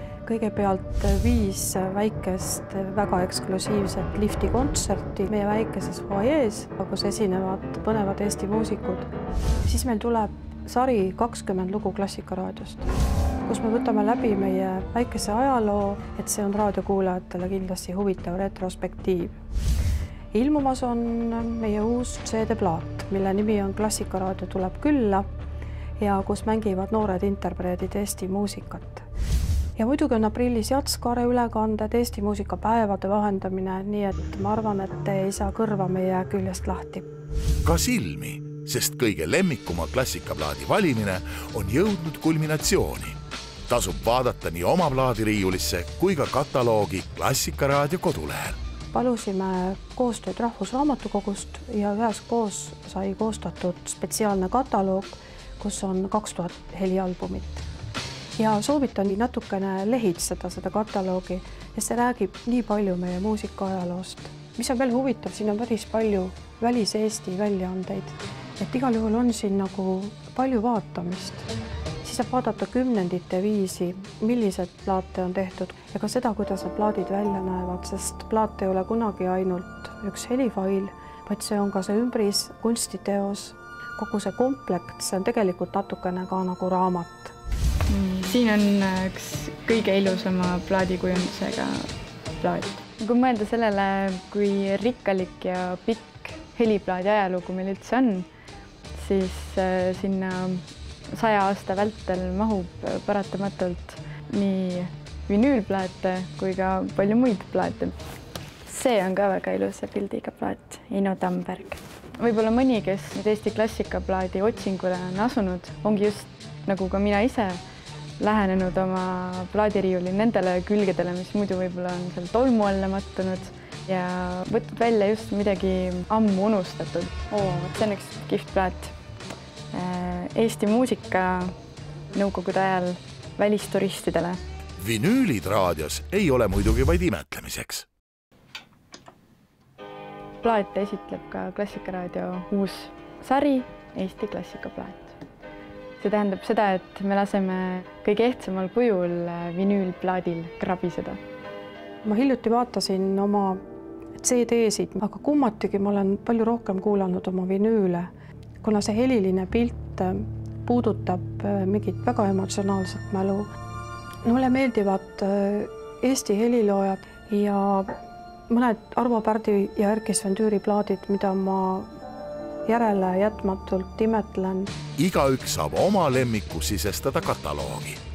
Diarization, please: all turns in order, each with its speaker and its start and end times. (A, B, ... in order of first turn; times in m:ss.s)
0:00.2-0:09.1 A
0:09.6-0:12.9 A
0:13.4-0:19.3 A
0:20.3-0:25.2 A
0:26.0-0:29.0 A
0:29.8-0:37.0 A
0:37.6-0:48.6 B
0:48.9-0:57.6 A
0:58.4-1:11.5 A
1:12.0-1:27.3 A
1:27.9-1:38.3 C
1:38.9-1:48.0 C
1:48.6-1:57.6 C
1:58.2-2:08.9 C
2:09.7-2:11.5 C
2:12.1-2:14.4 C
2:14.8-2:17.9 B
2:20.4-2:25.2 C
2:26.0-2:31.2 C
2:32.0-2:33.6 A
2:34.2-2:38.1 A
2:38.6-2:43.5 A
2:44.2-2:47.9 A
2:48.5-2:51.9 A
2:52.6-2:54.7 A
2:55.0-2:58.0 B